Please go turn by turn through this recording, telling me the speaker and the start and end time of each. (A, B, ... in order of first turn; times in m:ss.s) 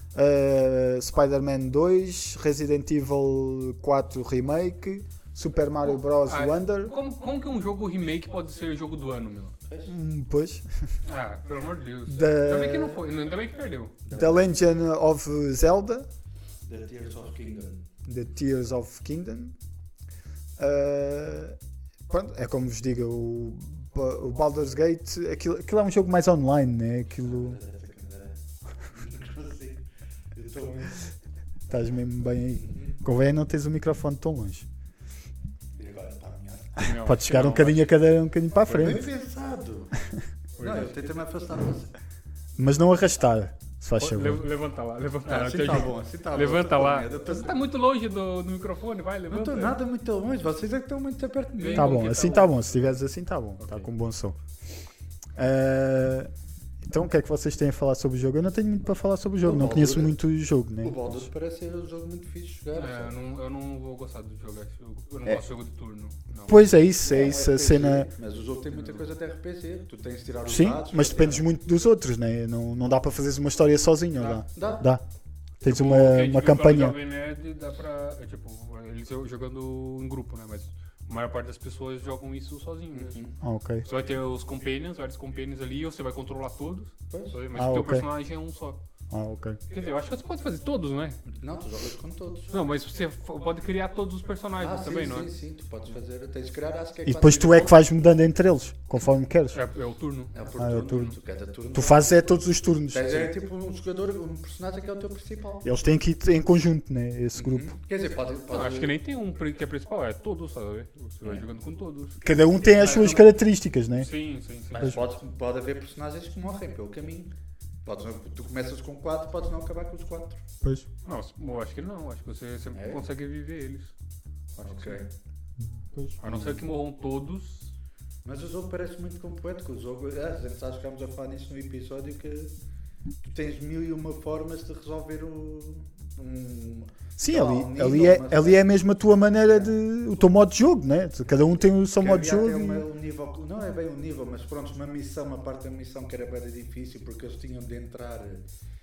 0:00.1-0:06.9 A
0:05.8-0:09.6 B
0:09.6-0:09.9 C
0:09.9-0:10.9 A
0:11.0-0:14.0 B
0:12.1-0:13.0 A
0:14.1-0:14.4 C
0:14.1-0:16.1 A
0:16.7-0:17.9 C
0:18.1-0:19.6 A
0:20.6-0:21.6 A
0:22.1-0:27.6 A
0:27.2-0:28.4 C
0:28.9-0:31.1 C
0:31.7-0:34.7 A
0:32.6-0:32.9 C
0:35.8-0:36.8 C
0:36.8-0:37.9 B
0:36.8-0:39.1 A
0:38.7-0:39.9 C
0:40.6-0:41.0 B
0:40.6-0:41.9 C
0:42.6-0:44.4 A
0:44.0-0:49.7 B
0:45.2-0:47.6 C
0:49.3-0:52.2 C
0:51.6-0:52.9 B
0:51.7-0:54.4 A
0:53.6-0:53.9 B
0:55.4-0:56.3 A
0:56.9-1:01.3 A
0:59.4-1:00.2 C
1:00.8-1:03.1 C
1:02.7-1:06.6 B
1:06.4-1:08.1 A
1:07.0-1:11.4 C
1:08.7-1:09.0 B
1:10.4-1:15.0 A
1:14.2-1:14.4 B
1:14.6-1:14.8 C
1:15.6-1:17.0 A
1:15.6-1:23.2 B
1:22.9-1:23.4 C
1:23.4-1:23.9 A
1:23.8-1:28.8 B
1:27.1-1:27.4 C
1:27.5-1:28.1 A
1:29.1-1:29.6 A
1:29.7-1:31.2 B
1:31.3-1:32.6 C
1:32.5-1:35.3 B
1:34.6-1:37.8 C
1:37.1-1:39.6 A
1:39.5-1:41.1 B
1:40.3-1:42.4 C
1:40.6-1:41.1 A
1:41.7-1:43.3 A
1:42.9-1:45.6 C
1:45.6-1:47.7 A
1:47.4-1:48.9 C
1:48.5-1:52.2 B
1:52.2-1:54.1 A
1:52.8-1:53.3 B
1:54.0-1:55.0 B
1:54.7-1:57.3 C
1:57.8-2:00.4 C
2:01.0-2:03.9 B
2:02.7-2:03.0 C
2:04.6-2:05.0 B
2:04.6-2:05.1 C
2:05.8-2:06.6 A
2:06.2-2:07.7 B
2:08.2-2:12.5 C
2:13.2-2:18.7 C
2:17.2-2:22.9 A
2:19.4-2:19.7 C
2:22.0-2:28.4 C